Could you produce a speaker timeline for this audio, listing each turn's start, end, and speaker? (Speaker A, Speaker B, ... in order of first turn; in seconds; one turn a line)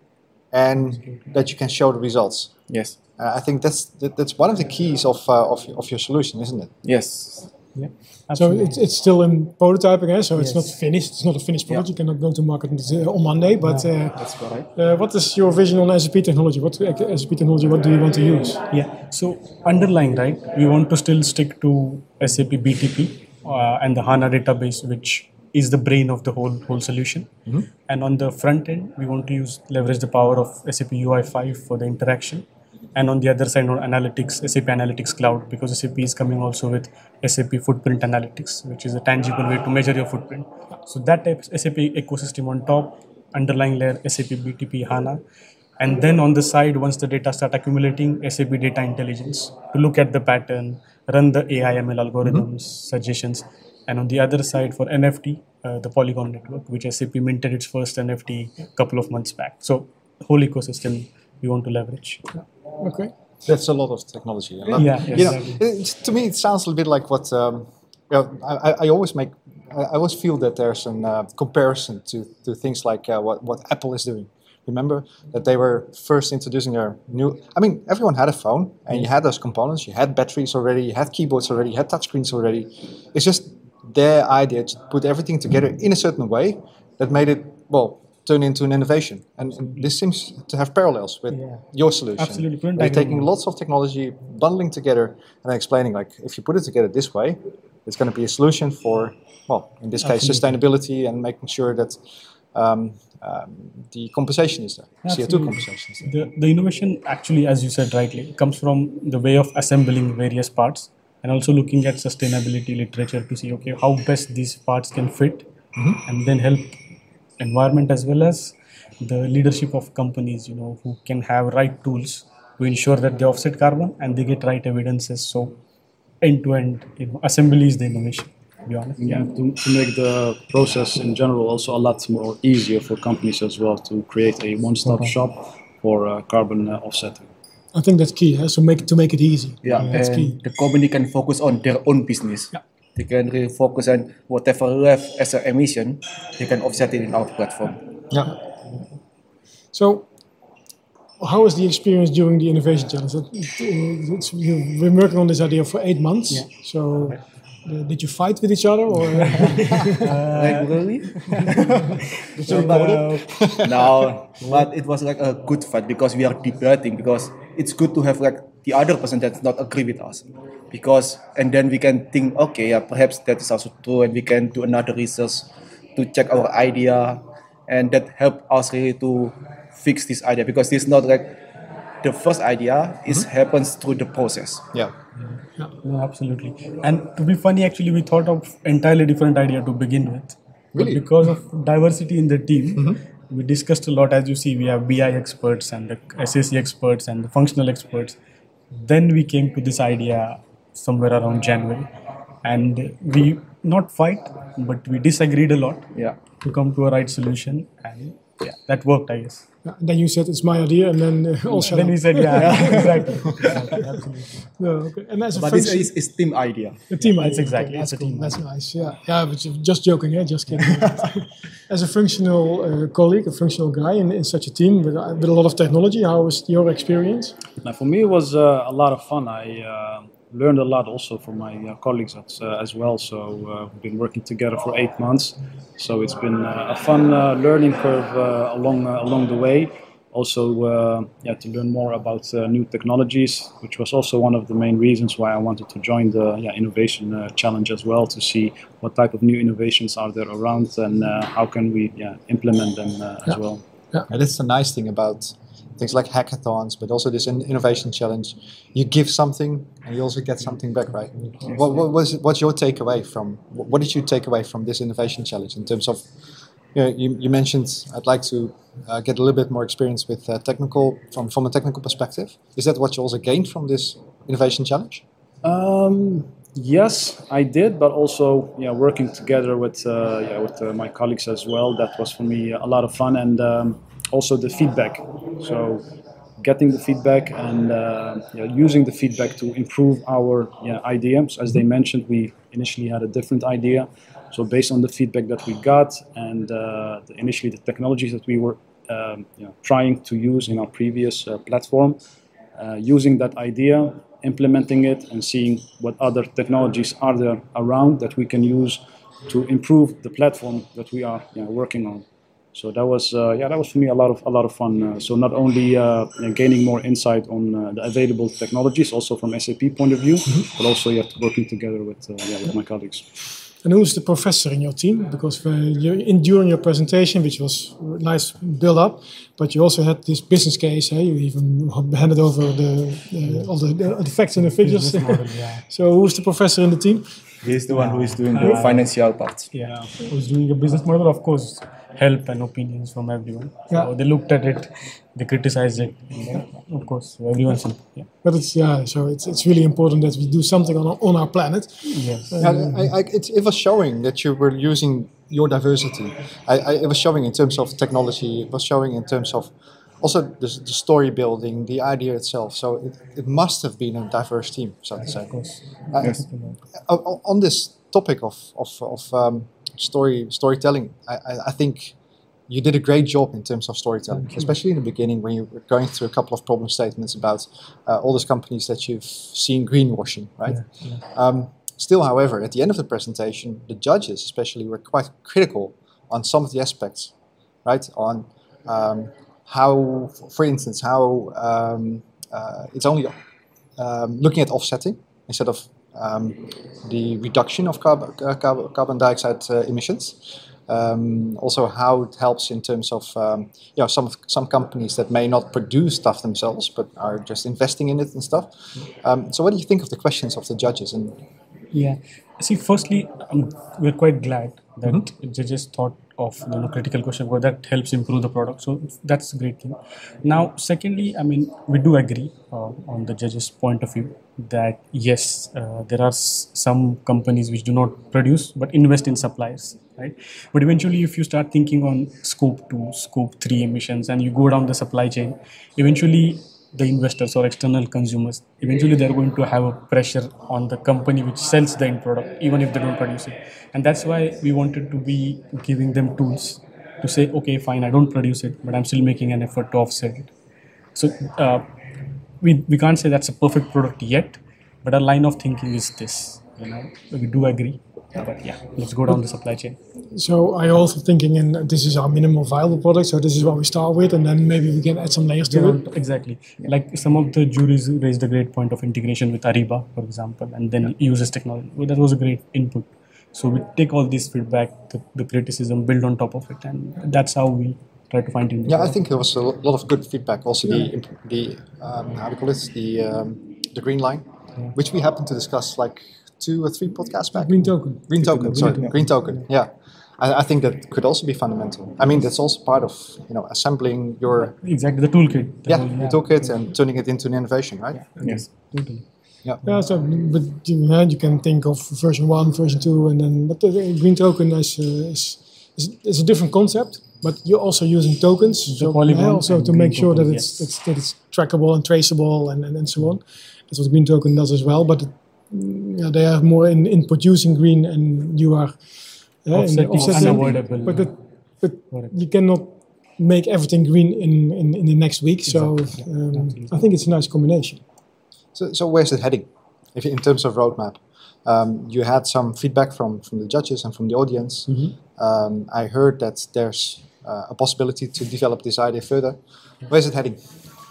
Speaker A: 0.5-2.6
Speaker B: 2.7-3.0
Speaker A: 3.2-6.7
Speaker B: 6.8-7.5
Speaker C: 7.7-8.8
Speaker D: 8.3-18.6
Speaker C: 10.3-10.7
Speaker C: 13.6-14.0
Speaker B: 14.1-14.7
Speaker C: 18.7-45.2
Speaker C: 45.8-62.2
Speaker D: 62.8-63.1
Speaker A: 63.4-102.0
Speaker C: 64.7-65.6
Speaker B: 65.0-65.4
Speaker C: 91.3-91.6
Speaker C: 92.2-93.3
Speaker C: 100.0-100.5
Speaker A: 102.5-106.0
Speaker C: 105.0-115.5
Speaker C: 116.0-116.8
Speaker C: 117.4-125.6
Speaker C: 126.2-129.3
Speaker E: 129.0-137.3
Speaker C: 134.8-135.1
Speaker D: 137.7-140.4
Speaker B: 139.6-147.8
Speaker D: 149.7-150.1
Speaker D: 151.2-160.1
Speaker C: 156.3-157.2
Speaker C: 159.2-163.4
Speaker B: 160.2-161.8
Speaker B: 162.4-181.4
Speaker A: 162.5-164.1
Speaker B: 182.0-184.6
Speaker C: 185.8-198.2
Speaker A: 190.7-191.0
Speaker C: 198.7-201.9
Speaker C: 202.4-209.4
Speaker D: 209.6-213.9
Speaker C: 211.5-214.4
Speaker B: 212.3-213.2
Speaker D: 214.6-215.9
Speaker B: 215.3-216.8
Speaker D: 216.9-227.3
Speaker C: 216.9-218.4
Speaker E: 227.6-253.6
Speaker A: 254.1-266.1
Speaker A: 266.7-275.0
Speaker E: 275.4-285.8
Speaker E: 286.4-302.0
Speaker E: 302.5-323.1
Speaker D: 323.6-337.1
Speaker C: 334.4-335.6
Speaker B: 337.4-339.5
Speaker C: 337.7-338.9
Speaker C: 339.5-348.1
Speaker D: 348.2-352.9
Speaker C: 351.8-352.5
Speaker A: 352.4-365.4
Speaker C: 365.3-366.6
Speaker A: 365.9-366.2
Speaker B: 366.0-366.2
Speaker A: 366.7-371.9
Speaker A: 372.5-387.1
Speaker C: 380.5-381.0
Speaker A: 387.6-393.1
Speaker A: 393.8-411.2
Speaker C: 411.7-450.3
Speaker C: 450.9-451.6
Speaker C: 452.4-459.8
Speaker D: 460.1-465.8
Speaker C: 465.4-478.9
Speaker A: 478.6-494.5
Speaker D: 487.3-488.8
Speaker C: 488.2-489.4
Speaker C: 494.4-496.6
Speaker A: 495.6-498.1
Speaker C: 497.9-499.0
Speaker B: 498.2-498.5
Speaker D: 499.6-527.8
Speaker C: 508.7-510.7
Speaker C: 519.5-521.1
Speaker C: 521.8-522.1
Speaker C: 525.5-526.8
Speaker A: 528.5-540.4